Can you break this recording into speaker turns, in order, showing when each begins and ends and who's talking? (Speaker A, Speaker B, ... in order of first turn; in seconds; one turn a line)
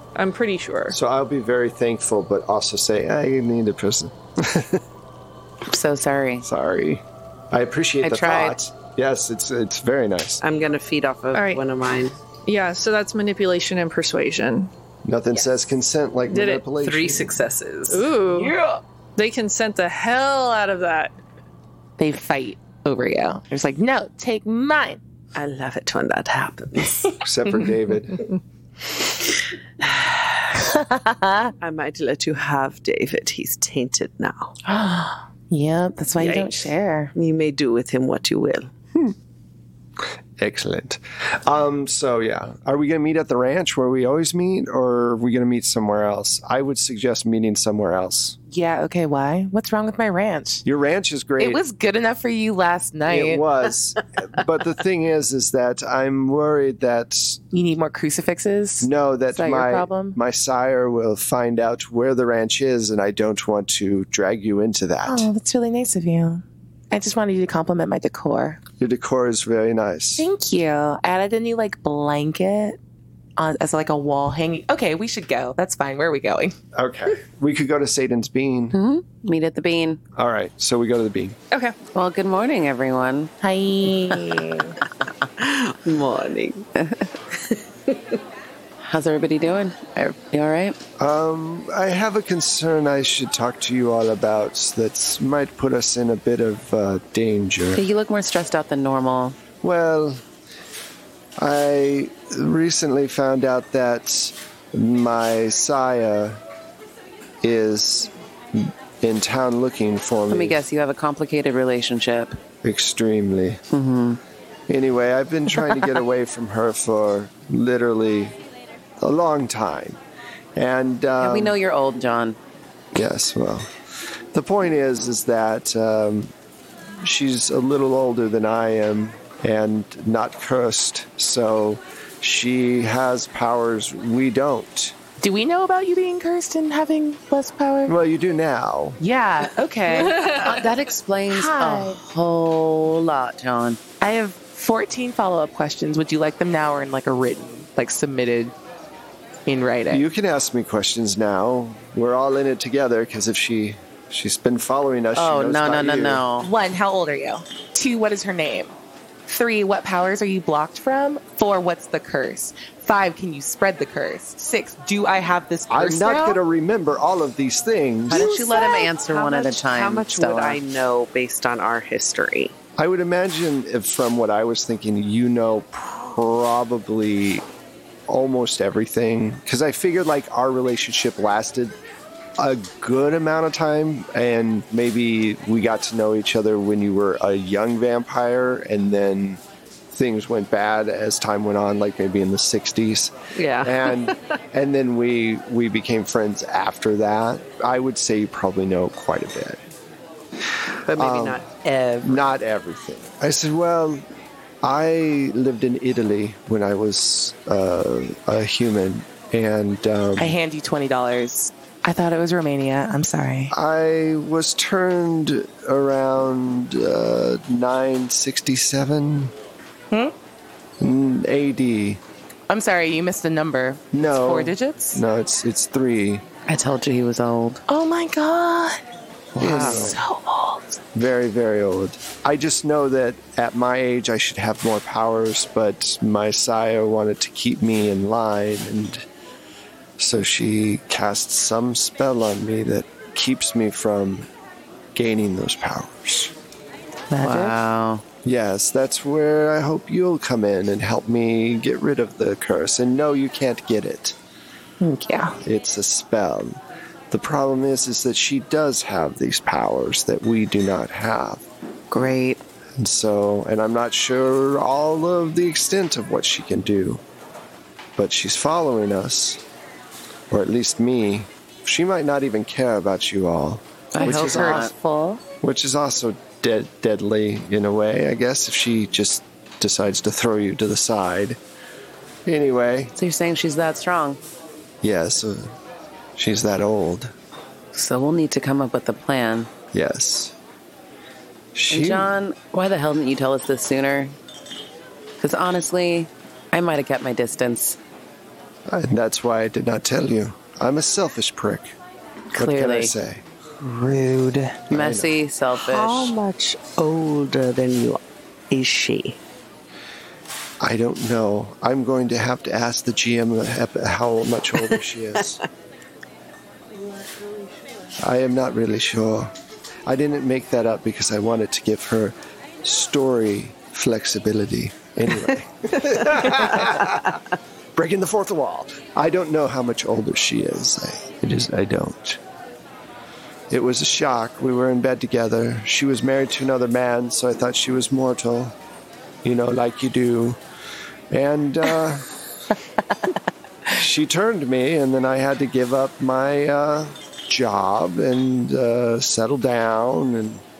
Speaker A: 0.1-1.0
Speaker B: 0.9-4.8
Speaker C: 5.7-6.5
Speaker B: 6.4-10.4
Speaker C: 8.0-8.6
Speaker D: 10.4-12.2
Speaker A: 11.3-11.6
Speaker A: 12.4-14.7
Speaker B: 15.0-17.3
Speaker A: 16.3-16.6
Speaker D: 16.8-18.5
Speaker A: 17.9-18.6
Speaker A: 19.1-21.1
Speaker E: 22.0-25.0
Speaker D: 25.3-27.2
Speaker B: 27.2-28.2
Speaker E: 29.9-31.5
Speaker D: 31.6-34.5
Speaker E: 34.6-37.1
Speaker D: 36.2-36.6
Speaker D: 37.1-38.7
Speaker B: 40.4-48.4
Speaker E: 48.5-50.6
Speaker B: 50.6-51.6
Speaker E: 51.4-53.4
Speaker B: 53.1-57.4
Speaker E: 57.5-60.2
Speaker B: 58.8-65.3
Speaker E: 65.0-68.6
Speaker B: 68.8-70.2
Speaker E: 70.2-72.8
Speaker E: 73.4-76.5
Speaker B: 76.7-78.8
Speaker C: 78.7-80.0
Speaker B: 80.2-81.4
Speaker A: 81.5-81.8
Speaker C: 81.9-83.3
Speaker E: 83.4-84.7
Speaker D: 85.4-86.7
Speaker C: 86.7-87.1
Speaker C: 88.8-90.8
Speaker B: 91.0-97.8
Speaker C: 97.7-99.4
Speaker B: 99.6-100.2
Speaker B: 101.4-106.4
Speaker B: 107.4-110.6
Speaker C: 110.3-112.4
Speaker B: 112.6-113.6
Speaker C: 113.7-114.2
Speaker B: 114.7-118.3
Speaker B: 119.0-120.0
Speaker B: 120.5-121.5
Speaker C: 121.2-122.4
Speaker B: 122.9-123.7
Speaker B: 124.3-126.3
Speaker B: 127.0-134.9
Speaker E: 135.2-137.9
Speaker B: 137.8-139.0
Speaker E: 139.0-140.3
Speaker C: 140.1-143.8
Speaker E: 141.3-142.0
Speaker E: 144.0-148.5
Speaker E: 149.5-150.0
Speaker B: 149.9-156.2
Speaker C: 155.1-156.5
Speaker E: 156.4-158.7
Speaker E: 159.3-166.4
Speaker B: 165.7-168.3
Speaker C: 168.1-170.6
Speaker D: 168.1-172.5
Speaker B: 172.8-177.4
Speaker B: 178.1-181.7
Speaker B: 182.4-189.4
Speaker B: 189.9-199.6
Speaker D: 193.3-194.2
Speaker D: 200.9-202.3
Speaker B: 201.0-201.4
Speaker B: 202.0-204.0
Speaker B: 204.6-210.4
Speaker E: 210.2-213.5
Speaker B: 213.5-219.3
Speaker B: 220.8-222.0
Speaker E: 222.5-225.0
Speaker B: 223.9-226.2
Speaker C: 226.4-227.6
Speaker E: 227.7-228.8
Speaker E: 229.4-230.8
Speaker B: 229.4-230.0
Speaker C: 229.4-229.9
Speaker B: 230.9-239.1
Speaker B: 240.0-244.3
Speaker B: 244.9-246.3
Speaker E: 247.1-247.5
Speaker C: 247.2-248.0
Speaker B: 248.2-254.2
Speaker E: 254.8-255.4
Speaker B: 255.4-256.6
Speaker B: 257.1-261.4
Speaker C: 261.9-262.4
Speaker B: 262.8-267.0
Speaker B: 267.9-269.4
Speaker B: 270.3-274.7
Speaker C: 273.9-274.7
Speaker E: 274.0-275.2
Speaker B: 275.4-281.4
Speaker B: 282.2-282.9
Speaker C: 282.9-284.2
Speaker B: 284.8-285.5
Speaker B: 286.2-287.1
Speaker C: 287.7-289.5
Speaker B: 289.7-290.3
Speaker B: 291.5-292.1
Speaker C: 291.7-294.1
Speaker C: 295.2-297.8
Speaker B: 298.7-301.7
Speaker C: 302.3-302.9
Speaker B: 302.3-303.2
Speaker E: 303.6-304.6
Speaker B: 304.7-305.1
Speaker C: 304.7-306.1
Speaker D: 305.5-309.2
Speaker B: 310.6-315.4
Speaker B: 318.0-319.3
Speaker B: 319.9-327.2
Speaker B: 327.8-332.2
Speaker B: 333.5-338.6
Speaker B: 339.2-340.4
Speaker B: 341.1-342.1
Speaker B: 343.7-350.4